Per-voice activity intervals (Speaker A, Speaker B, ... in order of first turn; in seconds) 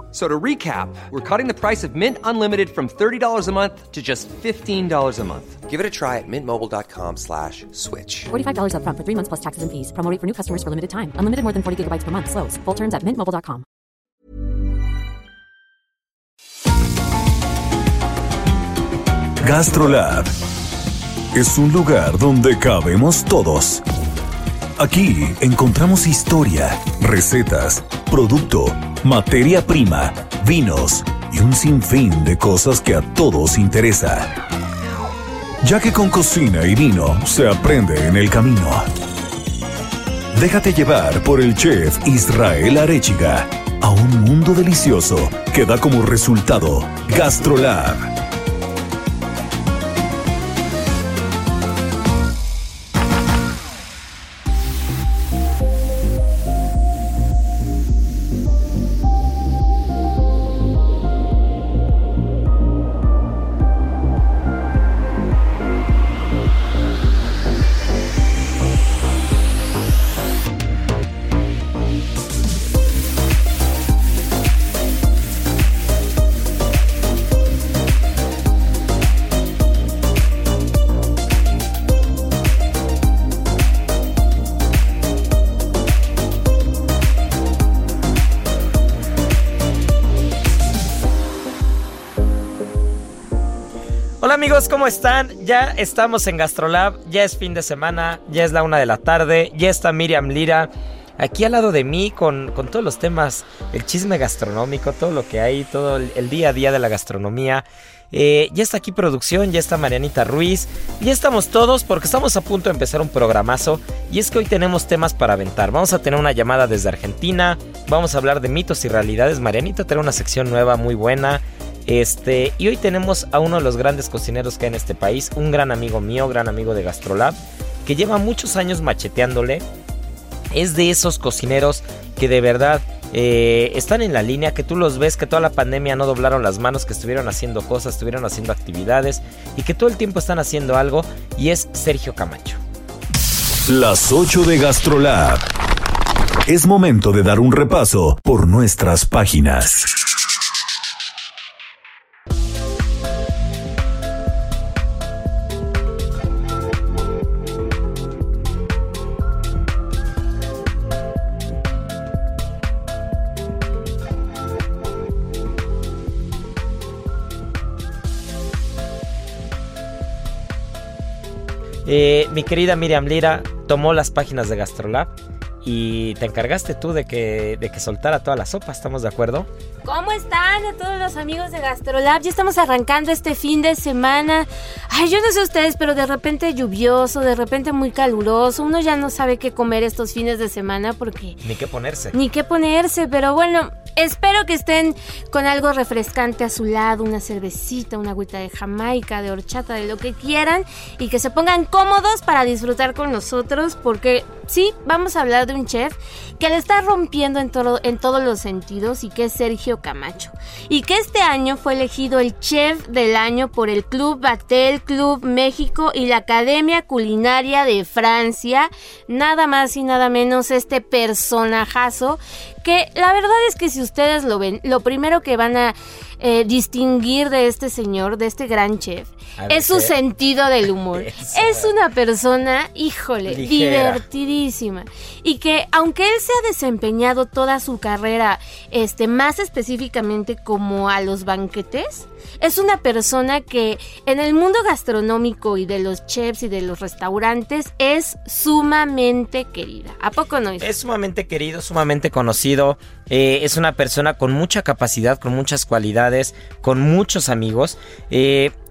Speaker A: 0.1-5.6
Speaker B: 3.8-4.4, 5.3-8.3
Speaker C: 8.3-13.7
Speaker D: 19.4-20.3, 21.3-23.8, 24.8-34.3, 35.6-38.9, 40.3-48.1, 143.7-145.5, 146.5-149.9
Speaker E: 94.2-129.6, 130.5-142.6, 171.8-175.1, 175.6-179.5, 191.4-192.2, 229.4-229.9, 230.9-231.7, 233.3-234.0, 250.6-258.5
Speaker F: 179.8-191.4, 192.1-250.7